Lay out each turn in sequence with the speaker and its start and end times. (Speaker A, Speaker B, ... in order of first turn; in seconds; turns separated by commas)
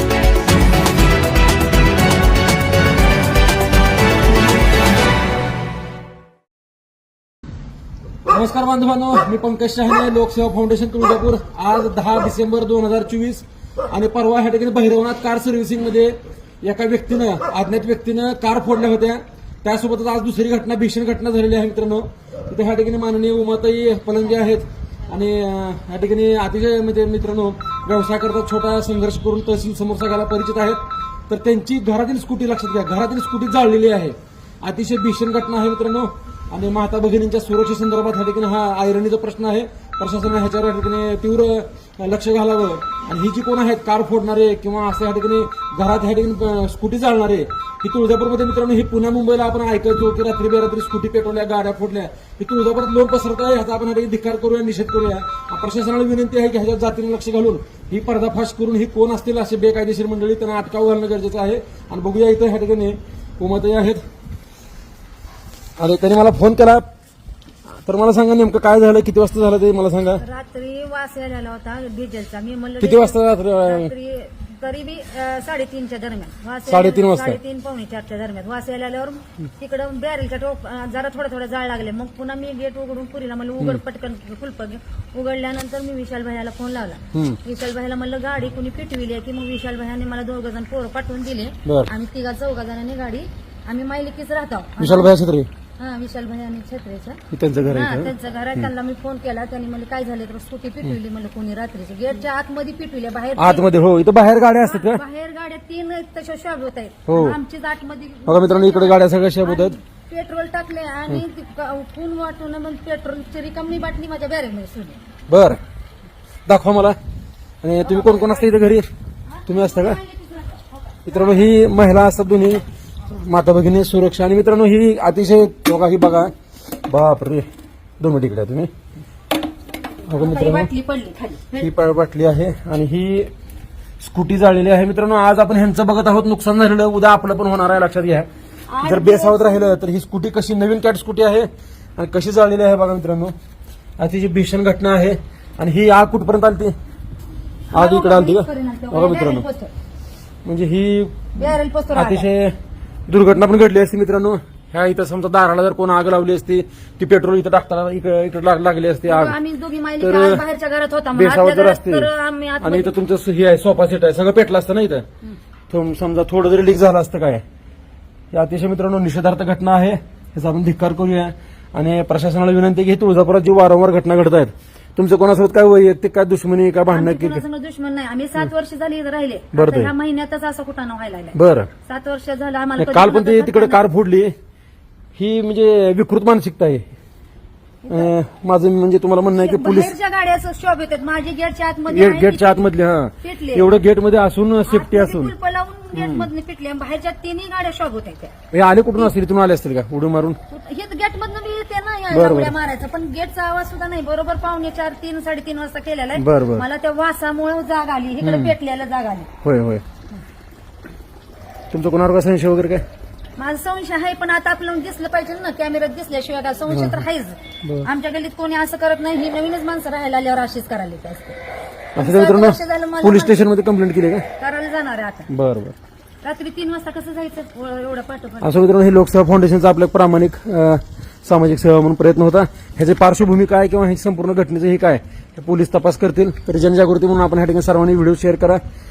Speaker A: 8.3-64.0, Speaker A: 65.8-66.9, Speaker A: 67.8-70.2, Speaker B: 70.2-95.1, Speaker A: 72.8-73.9, Speaker A: 76.7-77.4, Speaker A: 87.1-87.4, Speaker A: 91.7-91.9, Speaker A: 94.8-95.5, Speaker B: 95.8-103.7, Speaker A: 97.3-98.7, Speaker A: 103.4-105.0, Speaker B: 104.6-115.0, Speaker A: 107.1-107.4, Speaker A: 108.3-109.8, Speaker A: 115.3-115.6, Speaker A: 116.5-117.0, Speaker A: 117.6-118.9, Speaker B: 117.9-118.5, Speaker A: 119.5-120.0, Speaker B: 119.5-120.6, Speaker A: 121.0-126.3, Speaker A: 126.9-127.5, Speaker A: 128.0-128.7, Speaker A: 130.1-130.7, Speaker B: 130.1-131.7, Speaker A: 131.5-133.3, Speaker A: 134.0-138.3, Speaker B: 138.7-139.8, Speaker A: 138.8-143.3, Speaker A: 144.0-146.8, Speaker A: 147.7-149.5, Speaker B: 147.7-149.7, Speaker A: 150.4-152.6, Speaker B: 151.4-152.3, Speaker A: 153.1-159.4, Speaker B: 159.1-162.9, Speaker A: 160.0-160.4, Speaker A: 161.1-162.1, Speaker A: 162.6-165.1, Speaker A: 165.7-167.4, Speaker A: 168.3-177.4, Speaker B: 176.9-183.8, Speaker A: 179.5-179.9, Speaker A: 181.3-181.7, Speaker A: 182.8-184.3, Speaker A: 185.2-186.9, Speaker A: 187.9-189.9, Speaker B: 189.3-193.8, Speaker A: 191.9-195.3, Speaker B: 194.7-198.3, Speaker A: 195.9-196.3, Speaker A: 198.5-200.4, Speaker B: 200.5-209.3, Speaker A: 202.1-202.6, Speaker A: 206.2-206.7, Speaker A: 208.2-208.6, Speaker A: 209.4-209.8, Speaker A: 211.7-212.8, Speaker B: 213.4-221.4, Speaker A: 216.7-217.1, Speaker A: 217.6-217.9, Speaker A: 221.9-224.3, Speaker B: 222.0-223.4, Speaker B: 224.4-225.3, Speaker A: 225.3-225.8, Speaker B: 226.2-228.6, Speaker A: 228.4-238.6